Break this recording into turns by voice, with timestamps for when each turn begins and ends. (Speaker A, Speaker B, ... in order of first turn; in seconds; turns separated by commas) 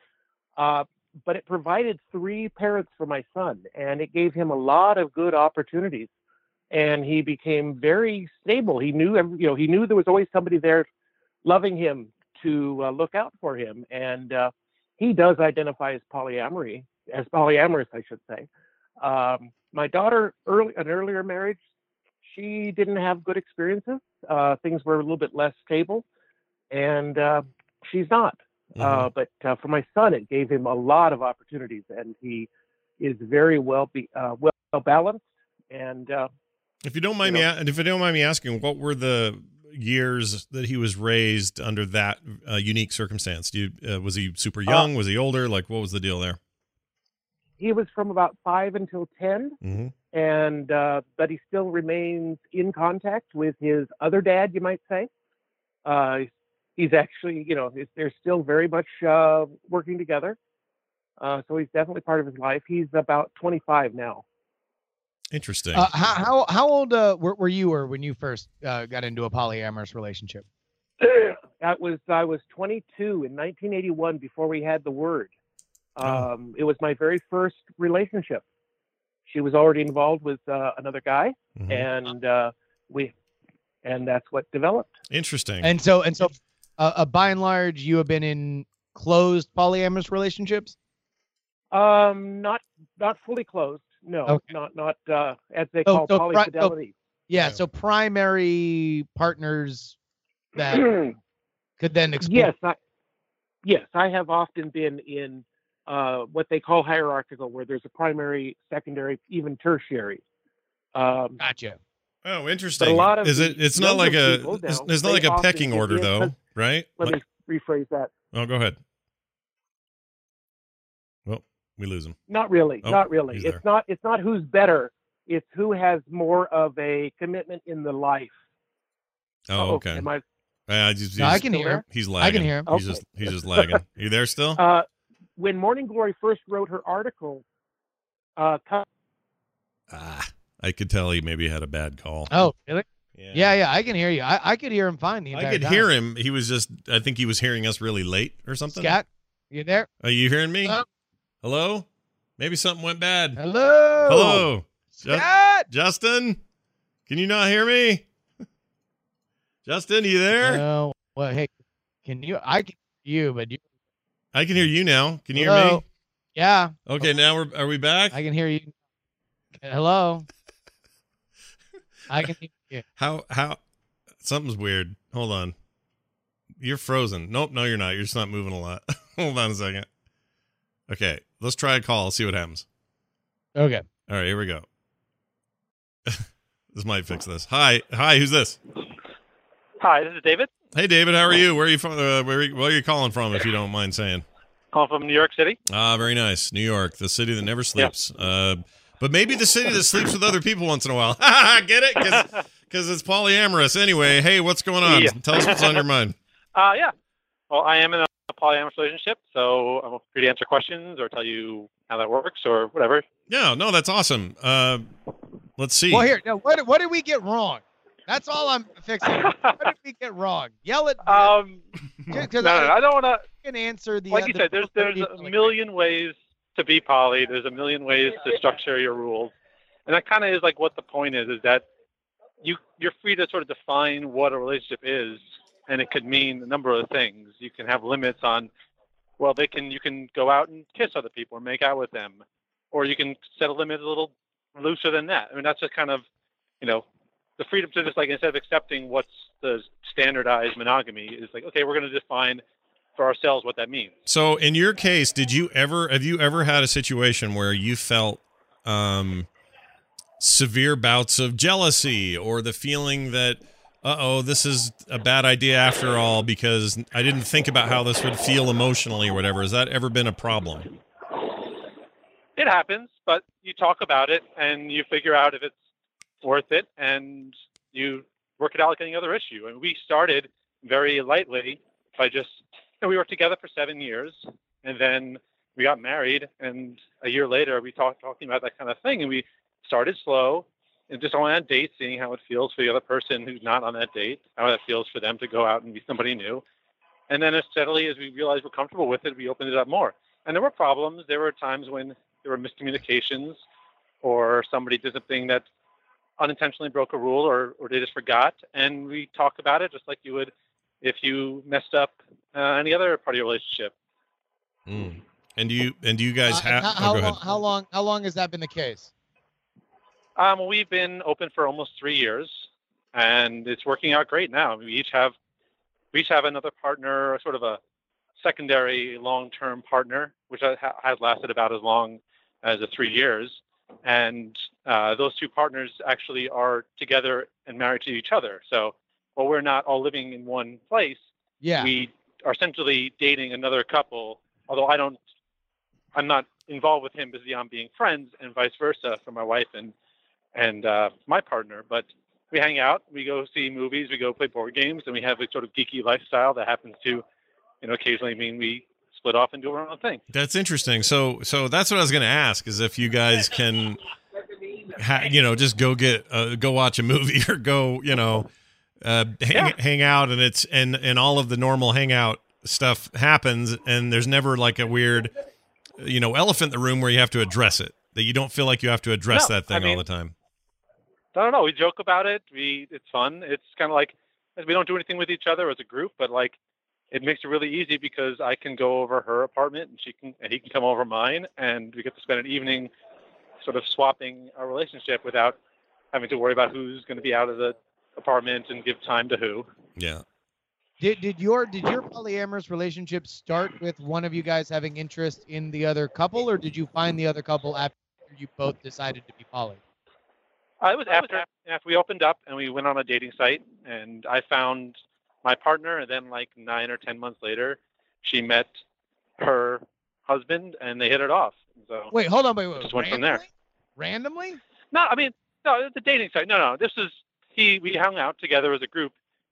Speaker A: 0.6-6.1, Speaker A: 6.7-10.9, Speaker A: 11.4-18.5, Speaker A: 19.0-21.6, Speaker A: 22.2-26.0, Speaker A: 26.7-32.5, Speaker B: 28.8-29.1, Speaker A: 33.0-36.3, Speaker B: 36.8-46.4, Speaker A: 47.6-49.6, Speaker B: 49.6-49.9, Speaker A: 50.1-55.1, Speaker A: 55.8-60.4, Speaker A: 61.2-64.2, Speaker B: 65.3-65.9, Speaker C: 65.7-70.4, Speaker A: 71.0-75.3, Speaker A: 76.0-78.4, Speaker B: 76.0-76.3, Speaker A: 79.3-83.1, Speaker B: 81.5-81.9, Speaker A: 83.8-84.9, Speaker B: 85.1-85.7, Speaker C: 85.6-90.7, Speaker A: 91.7-96.9, Speaker C: 95.9-96.7, Speaker C: 97.3-100.0, Speaker B: 97.3-97.6, Speaker C: 100.5-100.9, Speaker A: 100.7-101.1, Speaker C: 101.8-102.5, Speaker A: 102.2-102.8, Speaker A: 103.6-110.2, Speaker A: 110.9-111.4, Speaker C: 111.4-111.8, Speaker B: 112.2-117.2, Speaker A: 112.8-116.3, Speaker A: 117.0-118.1, Speaker B: 118.3-118.8, Speaker B: 121.3-122.2, Speaker A: 122.3-128.4, Speaker B: 122.8-123.6, Speaker B: 129.5-130.1, Speaker A: 129.6-130.2, Speaker B: 130.7-134.6, Speaker C: 131.2-132.7, Speaker A: 131.3-131.8, Speaker A: 132.7-133.0, Speaker A: 134.6-137.4, Speaker A: 138.4-138.9, Speaker B: 139.9-142.4, Speaker C: 142.3-145.9, Speaker B: 143.1-143.6, Speaker B: 145.3-149.0, Speaker C: 148.7-149.9, Speaker B: 150.0-150.8, Speaker B: 151.4-151.9, Speaker B: 152.4-153.4, Speaker C: 153.4-155.7, Speaker B: 154.1-156.4, Speaker B: 157.1-158.1, Speaker B: 159.7-160.6, Speaker C: 160.4-161.5, Speaker C: 162.1-163.6, Speaker B: 164.3-165.8, Speaker C: 165.3-165.8, Speaker C: 166.3-167.1, Speaker B: 166.9-168.2, Speaker C: 168.1-168.7, Speaker C: 169.6-170.3, Speaker C: 172.1-172.8, Speaker B: 173.0-173.6, Speaker B: 174.2-175.6, Speaker B: 176.6-179.9, Speaker B: 180.9-182.7, Speaker C: 183.6-183.8, Speaker B: 184.1-184.7, Speaker B: 186.1-188.6, Speaker D: 189.8-190.5, Speaker B: 190.7-194.2, Speaker D: 194.7-195.6, Speaker B: 195.7-206.2, Speaker D: 204.8-205.8, Speaker D: 206.5-206.9, Speaker D: 207.5-213.0, Speaker B: 213.3-214.9, Speaker B: 215.6-216.1, Speaker C: 215.9-221.3, Speaker D: 219.1-219.6, Speaker D: 221.1-221.6, Speaker C: 222.1-225.6, Speaker D: 222.4-223.2, Speaker D: 224.1-229.3, Speaker D: 229.9-231.6, Speaker D: 232.4-238.5, Speaker D: 239.2-246.1, Speaker D: 247.4-252.4, Speaker D: 252.9-253.9, Speaker B: 254.1-259.3, Speaker B: 260.2-270.7, Speaker D: 272.4-275.5, Speaker D: 276.2-296.4, Speaker D: 297.1-303.4, Speaker D: 304.0-305.4, Speaker D: 306.2-313.7, Speaker B: 314.6-317.2, Speaker C: 316.3-318.9, Speaker D: 320.1-325.1, Speaker D: 325.9-327.6, Speaker D: 328.2-341.0, Speaker C: 341.4-341.7, Speaker D: 341.6-345.0, Speaker D: 345.9-349.7, Speaker D: 350.3-357.1, Speaker D: 357.6-360.0, Speaker B: 360.1-363.8, Speaker B: 364.7-368.3, Speaker B: 368.8-375.1, Speaker B: 375.8-380.1, Speaker D: 379.1-379.8, Speaker D: 381.1-386.4, Speaker D: 386.9-392.7, Speaker D: 393.4-395.4, Speaker D: 395.9-399.5, Speaker B: 399.8-400.0, Speaker C: 400.8-409.6, Speaker D: 410.6-418.5, Speaker C: 410.9-411.2, Speaker D: 419.2-421.9, Speaker C: 421.9-424.4, Speaker D: 422.6-423.2, Speaker D: 424.7-428.9